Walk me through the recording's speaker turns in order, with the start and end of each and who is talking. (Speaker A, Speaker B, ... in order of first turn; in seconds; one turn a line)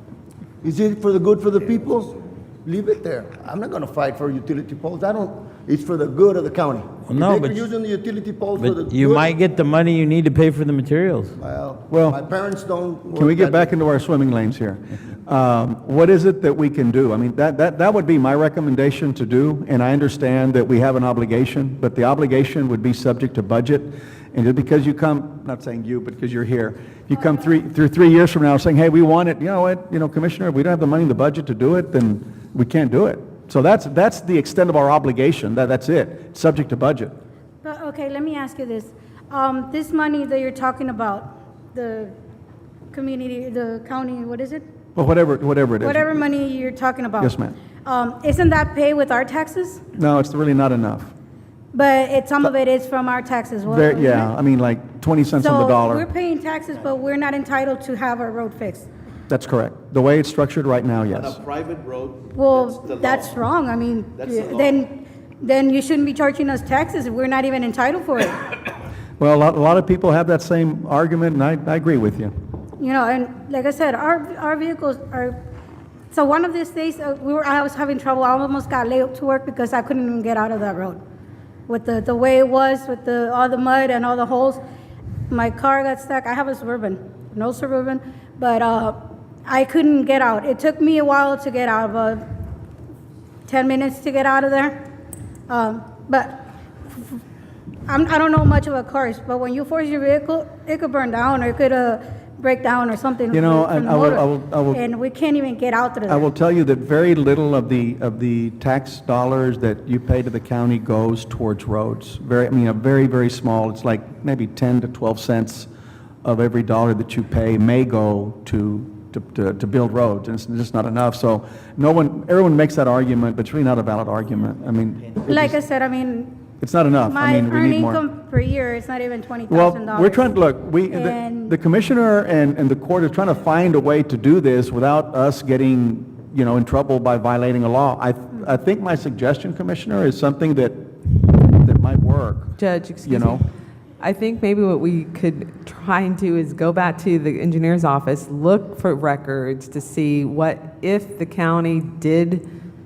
Speaker A: 0.6-9.4
Speaker B: 7.1-7.6
Speaker B: 8.6-11.3
Speaker A: 11.3-13.7
Speaker C: 11.9-12.2
Speaker C: 13.2-37.1
Speaker D: 37.6-42.1
Speaker D: 42.9-44.6
Speaker C: 45.0-46.2
Speaker D: 45.8-49.8
Speaker C: 47.2-47.6
Speaker C: 50.0-51.1
Speaker D: 51.7-54.3
Speaker C: 53.6-56.1
Speaker D: 55.4-58.9
Speaker C: 59.3-61.4
Speaker E: 61.1-63.5
Speaker D: 62.3-68.4
Speaker E: 64.1-64.8
Speaker C: 69.2-72.3
Speaker D: 72.8-75.3
Speaker D: 76.1-81.0
Speaker D: 81.7-84.6
Speaker D: 85.3-92.2
Speaker D: 93.5-94.8
Speaker D: 95.5-96.5
Speaker D: 97.9-106.3
Speaker C: 103.3-104.8
Speaker C: 106.1-115.7
Speaker C: 116.2-125.6
Speaker D: 125.3-126.4
Speaker C: 126.6-128.0
Speaker D: 127.1-130.3
Speaker C: 129.5-143.4
Speaker D: 130.9-131.6
Speaker F: 142.6-143.4
Speaker F: 144.0-152.4